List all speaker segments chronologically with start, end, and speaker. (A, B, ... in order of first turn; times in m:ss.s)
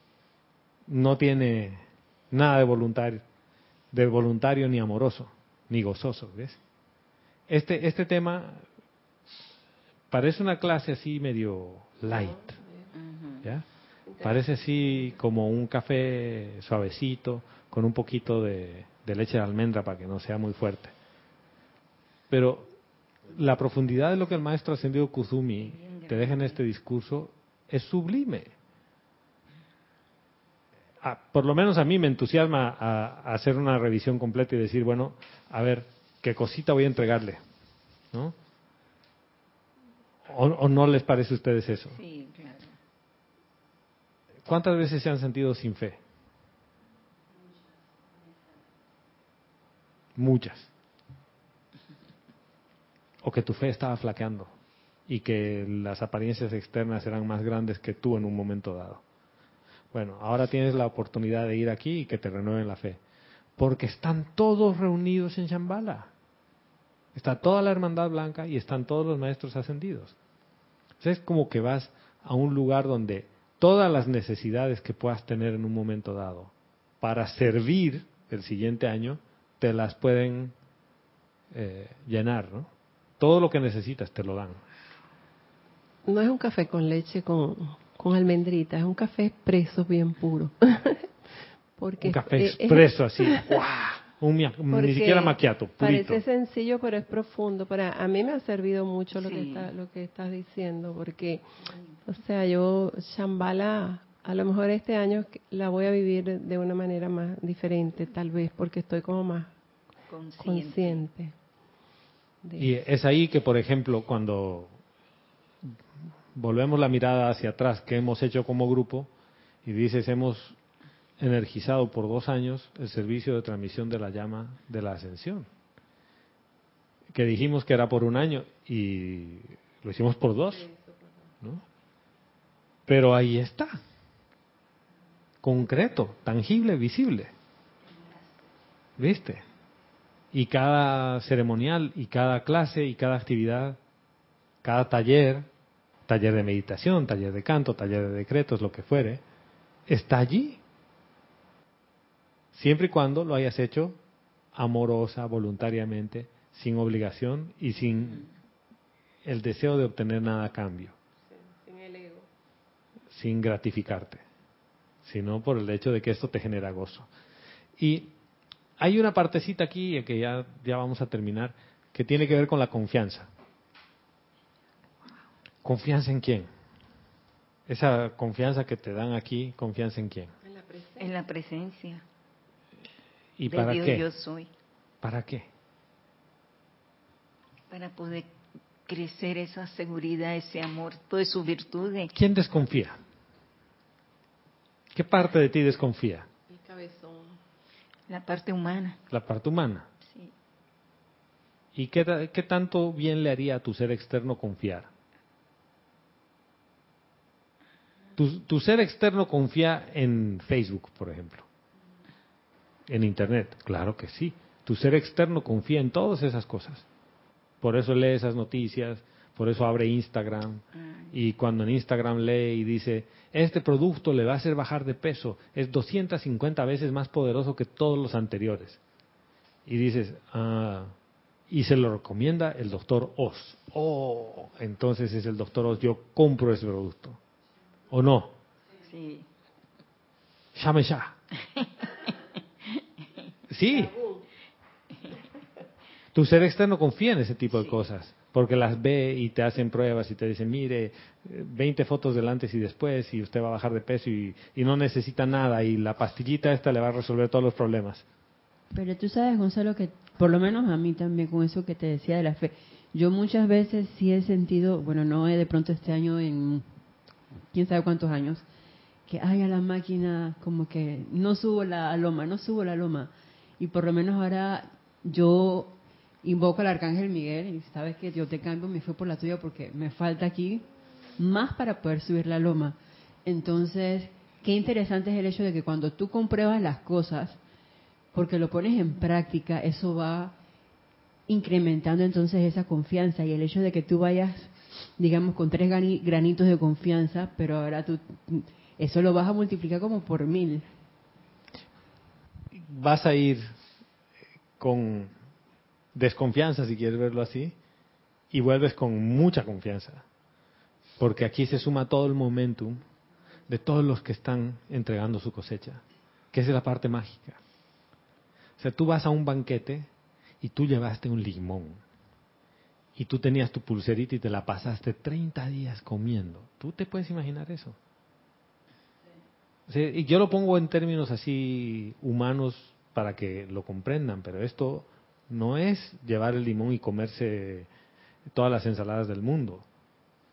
0:00.9-0:03.2 A
0:03.9-0:06.6 A
0:07.5-0:08.6 A
0:10.1-0:12.5 A
0:12.1-0:12.9 B
0:12.9-0:13.4 C
0:14.1-0:14.4 B
0:14.2-0:20.9 A
0:22.3-0:22.7 A
0:23.3-0:28.5 A
0:25.6-0:26.6 C
0:31.0-0:37.4 A
0:40.2-0:42.0 A
0:42.0-0:42.8 C
0:44.4-0:46.0 A
0:50.2-0:50.7 A
0:53.2-0:54.5 A
0:55.1-0:59.0 A
0:59.9-1:03.0 A
1:03.6-1:06.1 A
1:07.1-1:10.1 A
1:11.0-1:20.5 A
1:21.5-1:24.6 A
1:26.1-1:31.1 B
1:31.8-1:33.4 B
1:32.0-1:36.2 A
1:34.7-1:41.4 B
1:39.1-1:39.7 C
1:42.0-1:49.5 B
1:50.1-1:51.0 C
1:50.4-1:51.3 B
1:52.4-1:52.7 B
1:52.6-1:54.7 A
1:56.3-1:59.1 A
1:59.6-2:00.6 A
2:01.2-2:05.5 A
2:07.1-2:10.6 A
2:10.5-2:11.3 B
2:12.9-2:13.8 A
2:15.4-2:17.3 A
2:19.0-2:19.4 A
2:20.3-2:23.8 A
2:24.6-2:25.5 A
2:26.1-2:29.2 A
2:29.9-2:30.6 A
2:32.5-2:34.0 A
2:34.5-2:38.3 A
2:39.2-2:40.9 A
2:41.3-2:42.3 B
2:43.1-2:44.2 A
2:45.0-2:47.1 A
2:47.8-2:48.1 A
2:48.8-2:53.3 A
2:55.6-2:56.5 A
2:57.7-3:00.3 A
3:00.4-3:01.1 B
3:01.0-3:02.0 C
3:03.4-3:04.0 A
3:03.5-3:04.5 C
3:05.0-3:05.5 A
3:07.7-3:08.3 C
3:08.9-3:12.1 C
3:12.1-3:13.0 A
3:14.9-3:16.3 A
3:16.5-3:17.4 B
3:18.1-3:19.0 C
3:19.1-3:19.9 A
3:20.0-3:20.3 C
3:21.7-3:24.9 A
3:28.2-3:31.5 A
3:32.9-3:36.8 A
3:37.6-3:48.8 A
3:49.6-3:50.9 A
3:51.5-3:57.2 A
3:57.9-3:58.4 A
3:58.8-3:59.3 C
4:00.5-4:01.1 A
4:01.6-4:02.1 C
4:03.5-4:03.9 A
4:03.7-4:04.3 B
4:06.1-4:18.0 A
4:18.7-4:26.6 D
4:27.5-4:28.4 D
4:29.1-4:40.6 D
4:41.2-4:47.4 D
4:48.1-4:50.3 D
4:51.3-5:00.6 D
5:02.5-5:03.4 A
5:04.6-5:05.1 A
5:05.9-5:07.5 A
5:08.3-5:10.0 A
5:11.0-5:12.8 A
5:13.5-5:17.4 A
5:18.6-5:19.9 A
5:20.4-5:21.8 A
5:23.0-5:27.8 A
5:29.7-5:37.7 A
5:38.3-5:39.6 A